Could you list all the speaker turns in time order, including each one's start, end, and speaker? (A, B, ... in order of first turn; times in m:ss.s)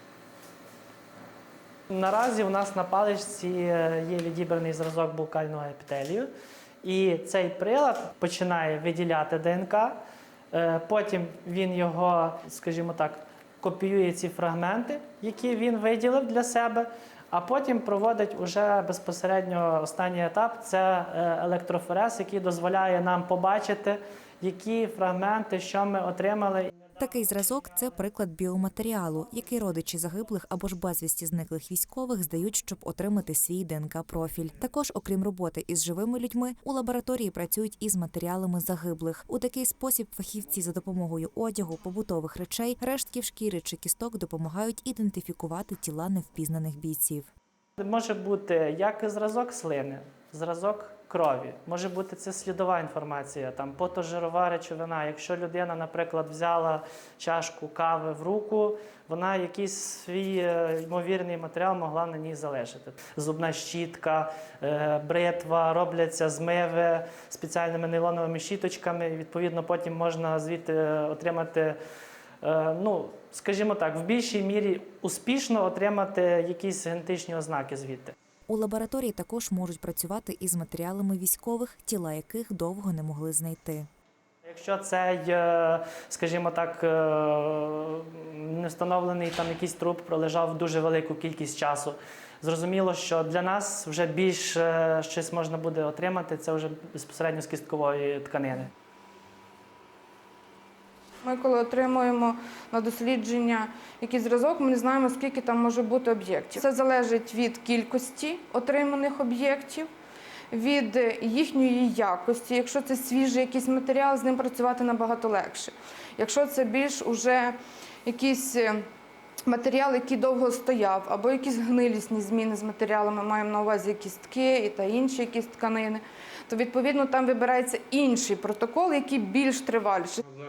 0:01.9-0:06.3 A
0:06.8-0:10.0 A
0:10.5-0:26.8 A
0:27.0-0:47.3 B
0:47.8-1:11.8 A
1:12.4-1:18.1 A
1:18.5-1:23.9 B
1:24.4-1:38.7 A
1:41.2-1:49.9 C
1:50.5-1:58.8 C
1:59.5-2:10.2 C